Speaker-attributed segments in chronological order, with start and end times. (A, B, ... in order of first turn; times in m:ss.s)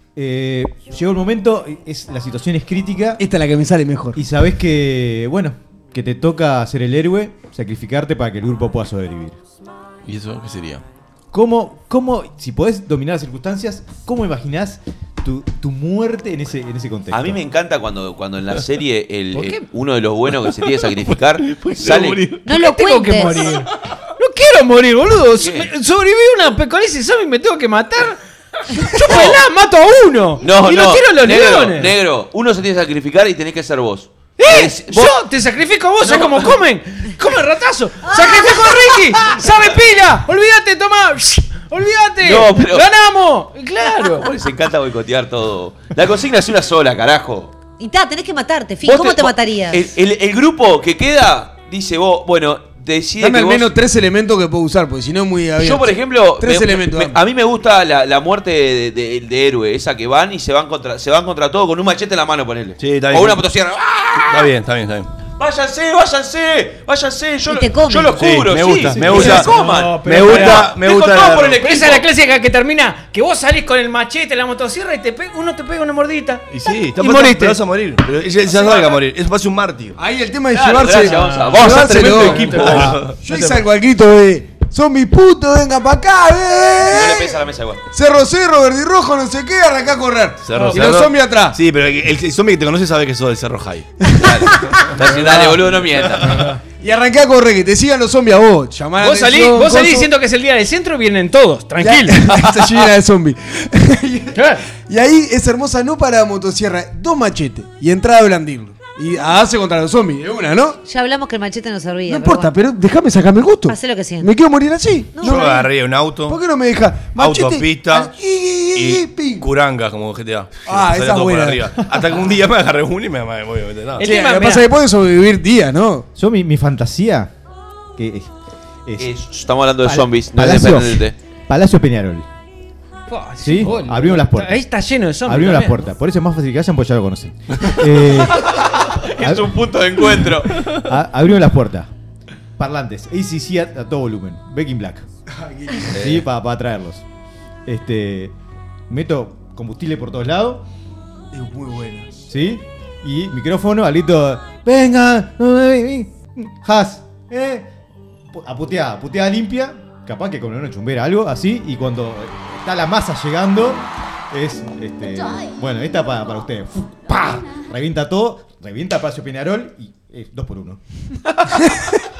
0:00.2-0:03.2 A
0:03.2-0:04.2 B
0:04.1-0:09.4 A
0:10.0-0:10.8 C
0:11.3-0:17.4 A
0:17.1-0:22.3 D
0:19.3-0:19.6 E
0:21.4-0:22.4 C
0:22.4-0:23.5 F
0:22.5-0:28.2 E
0:25.4-0:25.7 D
0:28.7-0:31.9 E
0:29.0-0:29.4 D
0:30.4-0:35.2 D
0:34.4-0:44.3 E
0:36.0-0:36.5 D
0:38.1-0:38.9 F
0:42.2-0:42.9 D
0:44.2-0:47.5 D
0:47.8-0:49.9 F
0:48.8-0:53.7 D
0:53.2-0:57.2 B
0:55.6-1:04.5 D
1:02.8-1:03.4 C
1:04.2-1:05.1 C
1:05.4-1:12.0 D
1:07.5-1:08.3 F
1:08.2-1:11.6 C
1:08.5-1:10.7 E
1:11.5-1:16.4 E
1:16.5-1:20.0 C
1:17.0-1:17.4 E
1:17.1-1:17.5 B
1:18.5-1:19.0 D
1:20.0-1:27.4 B
1:20.5-1:22.9 D
1:21.2-1:21.5 E
1:21.7-1:23.2 C
1:22.3-1:23.6 E
1:26.9-1:27.8 D
1:27.9-1:31.6 B
1:30.4-1:33.9 C
1:30.5-1:30.9 E
1:34.1-1:35.6 B
1:34.1-1:36.5 D
1:34.7-1:35.0 C
1:35.7-1:36.5 C
1:36.7-1:40.1 B
1:39.0-1:42.3 E
1:41.8-1:50.8 B
1:44.3-1:44.6 E
1:50.8-1:52.5 F
1:52.0-1:55.7 B
1:53.7-1:54.3 F
1:55.1-1:55.6 F
1:55.2-1:56.4 C
1:56.2-1:59.5 B
1:57.1-1:58.1 C
1:58.7-2:04.0 C
2:00.6-2:02.3 B
2:04.0-2:06.1 B
2:04.0-2:04.6 E
2:06.1-2:07.3 A
2:08.0-2:08.3 A
2:08.8-2:09.1 A
2:09.0-2:11.1 D
2:09.8-2:12.2 A
2:13.1-2:15.8 E
2:13.4-2:14.6 A
2:15.2-2:18.5 A
2:18.4-2:20.6 D
2:19.2-2:19.7 A
2:20.6-2:21.9 A
2:22.6-2:25.0 A
2:25.4-2:25.9 B
2:25.9-2:27.0 A
2:25.9-2:26.2 D
2:27.6-2:28.3 A
2:28.9-2:30.6 A
2:31.3-2:32.1 B
2:32.3-2:37.7 A
2:38.3-2:50.8 A